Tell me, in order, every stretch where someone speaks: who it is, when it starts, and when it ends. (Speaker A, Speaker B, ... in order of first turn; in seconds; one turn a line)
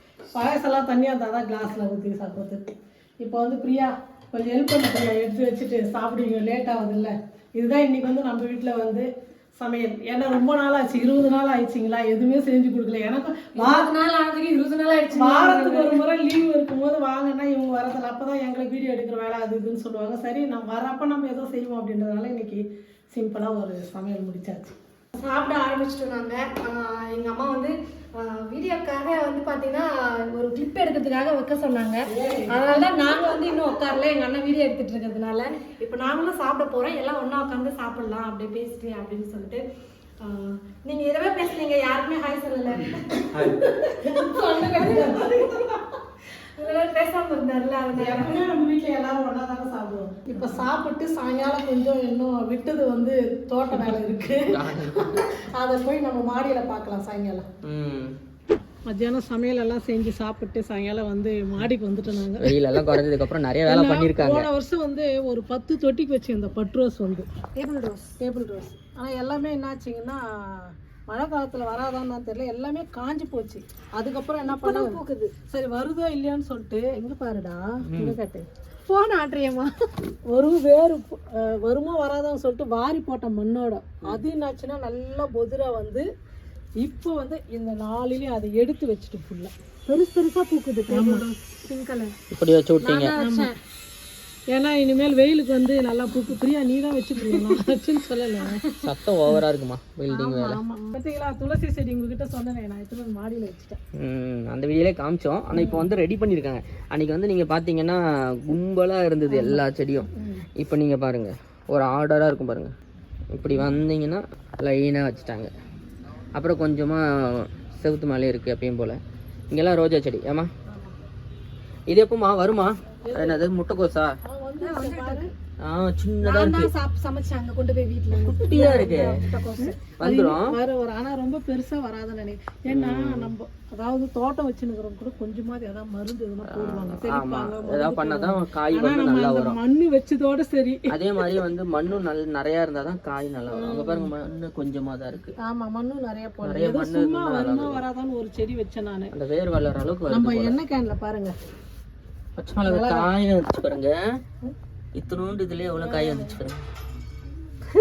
Speaker A: 0.3-13.9
Speaker B: 13.5-16.0
Speaker A: 15.1-24.7
Speaker B: 25.1-39.6
Speaker A: 32.1-33.8
Speaker B: 40.2-43.3
Speaker C: 43.3-43.6
Speaker A: 43.4-45.8
Speaker B: 43.9-45.5
Speaker B: 46.6-48.4
Speaker A: 47.9-57.5
Speaker C: 54.5-55.2
Speaker C: 57.6-58.1
Speaker A: 58.9-63.0
Speaker C: 62.4-64.5
Speaker A: 63.6-67.3
Speaker B: 67.5-68.1
Speaker A: 68.2-78.5
Speaker B: 74.6-75.3
Speaker C: 77.8-78.2
Speaker B: 78.9-79.8
Speaker A: 80.3-86.0
Speaker A: 86.8-89.5
Speaker B: 89.9-92.1
Speaker A: 90.9-91.2
Speaker C: 92.3-93.1
Speaker B: 92.8-93.5
Speaker A: 93.2-93.5
Speaker A: 94.5-98.6
Speaker B: 97.2-97.6
Speaker B: 98.4-98.9
Speaker C: 98.8-100.6
Speaker A: 100.1-103.8
Speaker C: 104.0-112.7
Speaker A: 105.5-105.9
Speaker A: 109.3-110.5
Speaker C: 113.3-115.5
Speaker C: 116.3-119.0
Speaker C: 119.5-120.5
Speaker C: 121.9-124.1
Speaker A: 123.0-123.4
Speaker A: 124.2-125.3
Speaker B: 124.6-125.3
Speaker C: 125.6-126.7
Speaker B: 126.2-129.8
Speaker C: 128.1-129.2
Speaker A: 128.5-141.4
Speaker C: 130.0-130.5
Speaker C: 132.7-133.3
Speaker C: 136.4-139.6
Speaker C: 140.9-145.3
Speaker A: 143.5-144.1
Speaker A: 145.4-149.1
Speaker C: 146.4-147.8
Speaker C: 149.1-150.6
Speaker A: 150.1-151.3
Speaker C: 152.4-154.0
Speaker A: 152.7-153.1
Speaker C: 154.9-156.6
Speaker A: 155.8-156.4